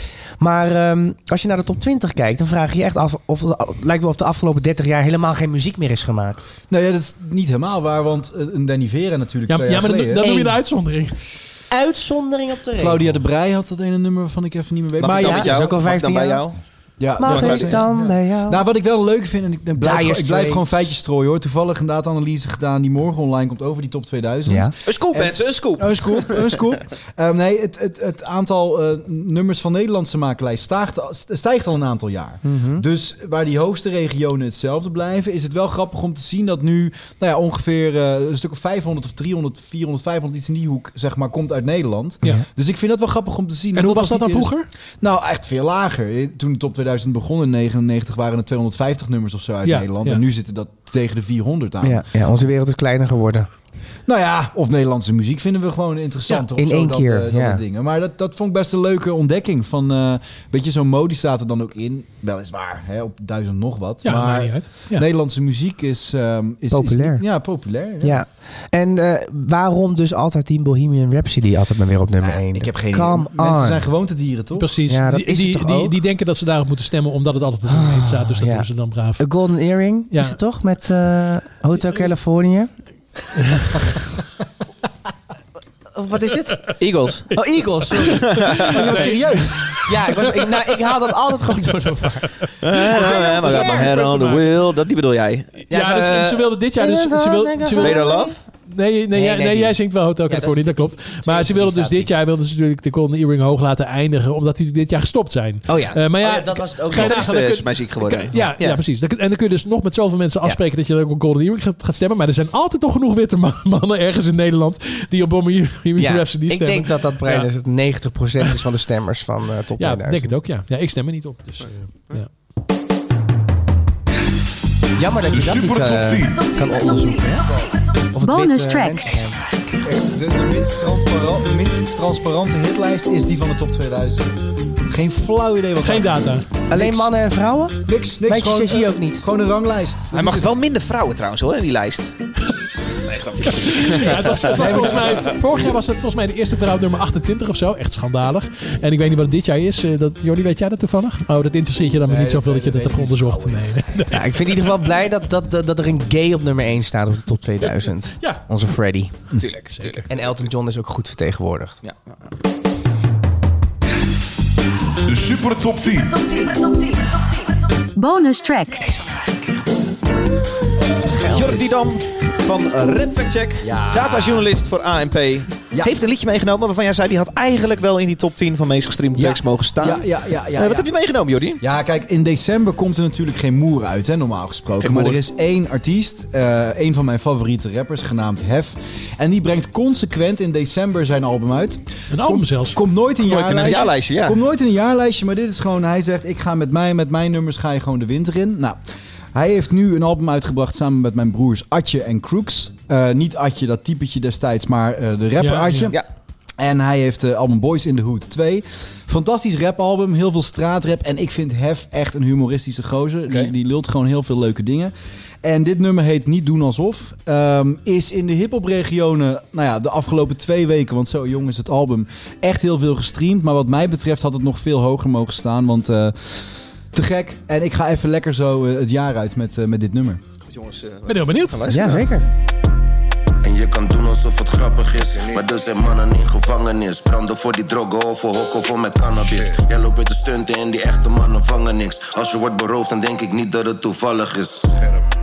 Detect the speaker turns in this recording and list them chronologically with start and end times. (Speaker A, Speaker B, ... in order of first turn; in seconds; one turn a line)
Speaker A: 0.4-6.5
Speaker B: 6.7-10.4
Speaker C: 9.5-11.2
Speaker A: 10.2-10.6
Speaker A: 11.7-13.2
Speaker B: 12.8-15.7
Speaker D: 15.0-16.6
Speaker A: 15.1-16.4
Speaker B: 17.0-52.0
Speaker A: 17.2-18.6
Speaker D: 17.2-17.8
Speaker A: 19.8-20.9
Speaker A: 24.5-24.7
Speaker D: 24.9-26.6
Speaker A: 32.4-32.8
Speaker C: 43.7-44.7
Speaker C: 49.6-50.2
Speaker A: 51.8-53.5
Speaker B: 54.0-68.2
Speaker A: 56.5-57.6
Speaker C: 64.0-65.0
Speaker A: 66.7-67.2
Speaker A: 68.0-73.8
Speaker B: 72.2-74.7
Speaker C: 74.5-79.2
Speaker A: 74.9-75.9
Speaker A: 77.7-78.7
Speaker A: 79.2-82.7
Speaker C: 80.1-80.4
Speaker A: 85.9-86.7
Speaker D: 86.8-87.4
Speaker A: 87.3-88.8
Speaker C: 87.9-88.8
Speaker D: 88.0-88.6
Speaker B: 88.6-89.7
Speaker A: 89.8-94.4
Speaker D: 92.6-95.5
Speaker C: 93.6-94.4
Speaker A: 95.7-98.4
Speaker C: 95.7-117.5
Speaker D: 97.8-98.4
Speaker A: 99.1-102.1
Speaker A: 105.7-107.3
Speaker D: 106.9-108.8
Speaker A: 116.0-120.4
Speaker C: 119.8-122.3
Speaker A: 125.0-127.5
Speaker E: 125.3-126.4
Speaker A: 128.1-129.4
Speaker F: 128.2-129.2
Speaker B: 129.8-137.1
Speaker C: 135.8-136.4
Speaker A: 136.7-139.2
Speaker B: 137.8-140.5
Speaker D: 140.1-142.2
Speaker D: 143.1-145.2
Speaker C: 143.4-154.7
Speaker B: 144.3-145.4
Speaker B: 152.0-154.0
Speaker A: 154.1-159.2
Speaker D: 159.4-160.3
Speaker C: 159.7-160.0
Speaker A: 160.1-161.8
Speaker D: 161.8-162.2
Speaker E: 165.0-166.2
Speaker F: 167.9-169.0
Speaker D: 171.1-181.6
Speaker B: 171.3-171.6
Speaker B: 173.6-174.3
Speaker B: 179.1-180.9
Speaker B: 181.6-198.8
Speaker D: 184.8-185.2
Speaker C: 192.1-192.8
Speaker D: 193.2-194.4
Speaker B: 199.3-206.0
Speaker C: 205.4-205.9
Speaker B: 206.6-226.3
Speaker B: 226.9-230.2
Speaker D: 230.4-232.2
Speaker C: 231.1-231.6
Speaker A: 231.7-232.3
Speaker G: 233.4-244.8